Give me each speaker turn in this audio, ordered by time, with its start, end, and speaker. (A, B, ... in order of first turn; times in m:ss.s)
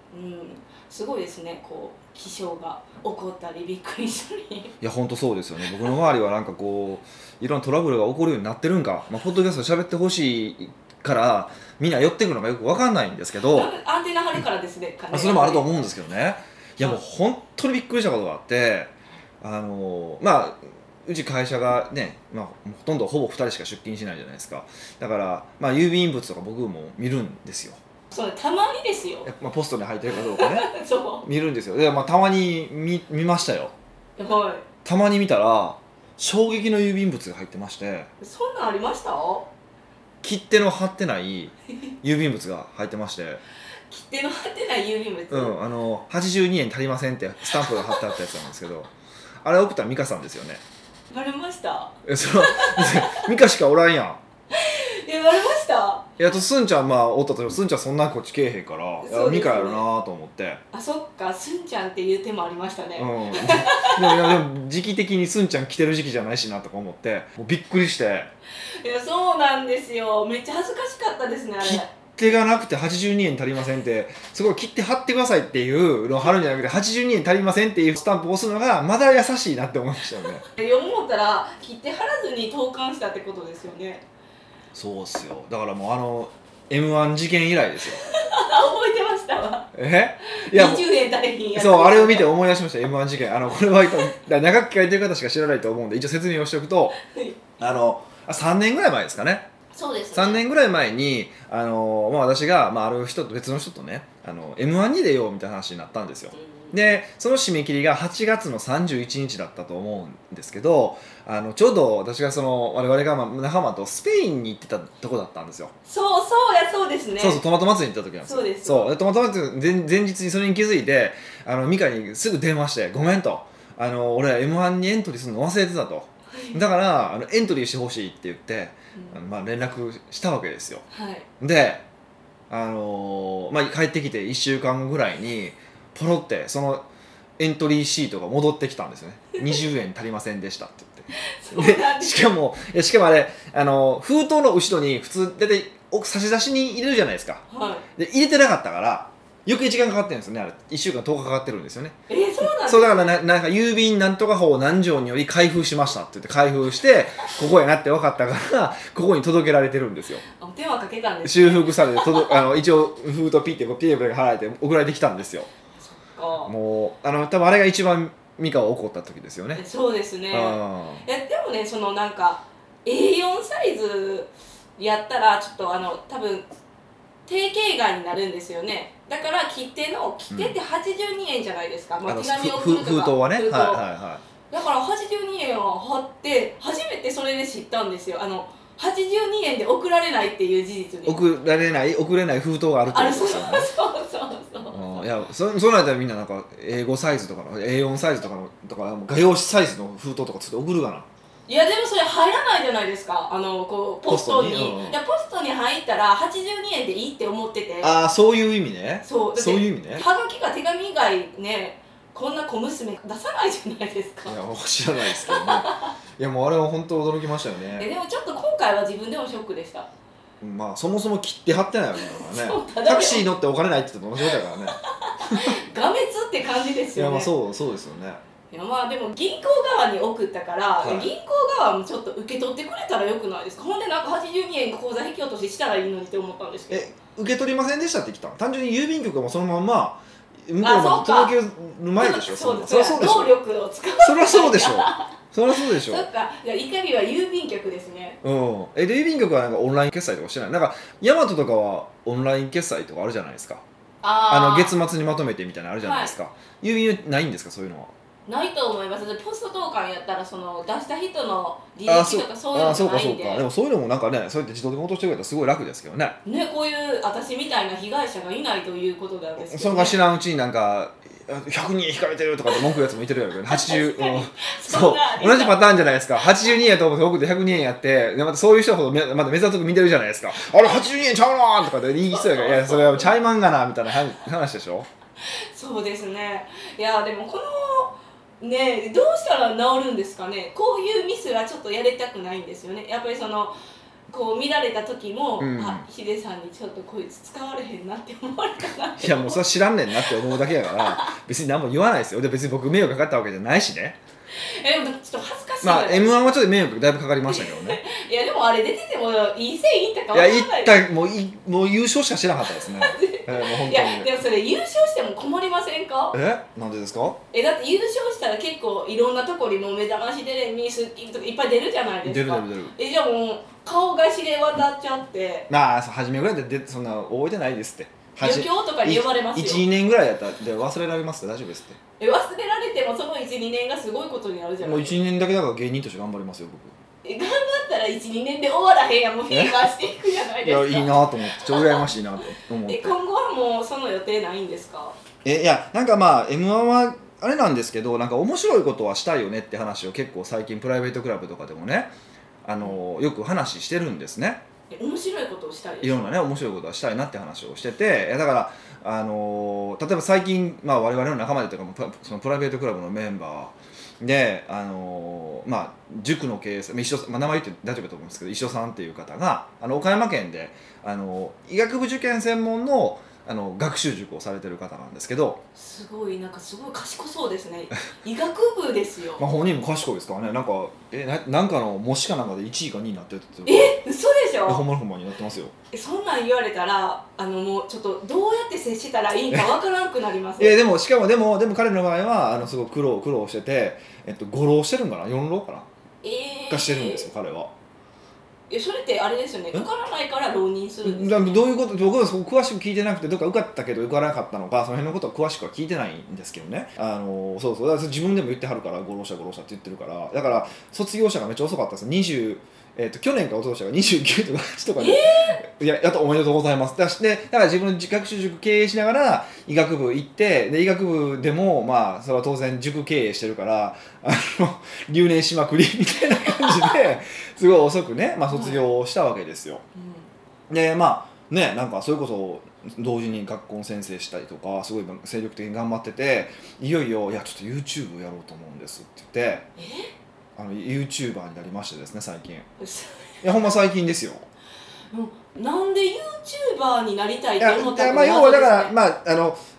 0:00.1-0:04.8 A
0:04.8-0:13.7 B
0:13.4-0:15.7 A
0:15.1-0:27.8 B
0:28.1-0:29.3 A
0:29.2-0:30.7 B
0:30.1-0:31.2 A
0:31.2-0:33.7 B
0:34.2-0:34.6 A
0:34.8-0:38.1 B
0:38.2-0:39.5 A
0:40.2-0:43.4 B
0:43.9-0:45.6 A
0:45.3-0:48.9 B
0:47.5-0:48.2 A
0:49.4-0:50.6 B
0:51.1-0:53.3 A
0:52.0-0:54.2 B
0:54.5-0:56.1 A
0:56.2-1:00.6 B
0:59.0-0:59.8 A
1:00.7-1:04.4 A
1:03.0-1:08.3 B
1:08.6-1:11.9 A
1:11.6-1:20.4 B
1:20.5-1:24.0 A
1:24.8-1:28.0 B
1:27.9-1:29.7 A
1:29.7-1:30.8 B
1:30.4-1:32.3 A
1:31.6-1:37.0 B
1:37.0-1:37.5 A
1:37.6-1:39.5 B
1:39.7-1:40.4 A
1:40.1-1:55.7 B
1:46.4-1:46.8 A
1:55.9-1:57.4 A
1:57.2-2:10.8 B
1:58.2-1:58.9 A
2:06.3-2:06.6 A
2:10.9-2:11.3 A
2:11.4-2:11.8 B
2:12.5-2:16.8 B
2:17.4-2:27.4 B
2:21.1-2:22.2 A
2:27.5-2:27.8 A
2:28.0-2:40.2 B
2:32.1-2:33.1 A
2:40.3-2:42.3 A
2:41.2-2:45.5 B
2:45.8-2:46.5 A
2:46.4-2:49.6 B
2:49.6-2:56.5 A
2:50.3-2:51.0 B
2:57.2-3:03.8 A
3:00.3-3:00.6 B
3:02.1-3:04.2 B
3:04.5-3:11.2 A
3:11.0-3:13.7 B
3:12.9-3:15.0 A
3:14.7-3:21.1 B
3:21.5-3:28.0 A
3:24.1-3:25.0 B
3:27.8-3:30.0 B
3:29.0-3:34.4 A
3:34.3-3:37.9 B
3:35.0-3:35.9 A
3:37.8-3:39.9 A
3:40.4-3:45.6 B
3:42.0-3:43.2 A
3:44.3-3:47.3 A
3:46.9-3:48.2 B
3:48.5-3:56.9 A
3:50.8-3:51.1 B
3:56.7-4:03.3 B
4:00.6-4:01.4 A
4:02.0-4:08.2 A
4:04.0-4:06.0 B
4:08.2-4:13.6 B
4:14.0-4:14.8 A
4:14.3-4:17.9 B
4:15.8-4:16.1 A
4:18.2-4:23.4 A
4:21.9-4:26.2 B
4:26.2-4:30.0 A
4:29.4-4:44.9 B
4:33.5-4:35.6 A
4:42.1-4:43.1 A
4:45.2-4:53.5 A
4:54.1-4:59.4 A
4:55.4-4:55.8 B
4:59.0-5:04.0 B
5:00.0-5:01.1 A
5:04.3-5:06.4 A
5:05.6-5:07.8 B
5:07.3-5:10.8 A
5:10.1-5:14.1 B
5:12.6-5:16.2 A
5:16.1-5:17.2 B
5:17.3-5:25.5 A
5:22.0-5:22.7 B
5:25.5-5:31.8 B
5:28.2-5:29.6 A
5:32.0-5:34.9 A
5:34.6-5:36.7 B
5:37.0-5:42.0 A
5:39.3-5:39.6 B
5:40.4-5:43.0 B
5:42.6-5:45.0 A
5:45.2-5:51.9 B
5:52.4-5:54.4 B
5:54.7-5:56.2 A
5:55.8-6:15.4 B
6:15.5-6:19.2 A
6:19.2-6:23.8 B
6:23.4-6:24.6 A
6:24.4-6:25.5 B
6:25.7-6:30.6 A
6:30.4-6:35.7 B
6:36.0-6:37.1 A
6:36.5-6:37.5 B
6:38.5-6:41.4 A
6:40.8-7:09.6 B
6:54.8-6:55.4 A
7:08.3-7:08.6 A
7:09.8-7:10.1 A
7:10.5-7:19.4 B
7:19.6-7:19.9 A
7:20.4-7:22.5 B
7:22.6-7:23.1 A
7:23.2-7:24.2 B
7:24.9-7:28.8 A
7:27.4-7:29.4 B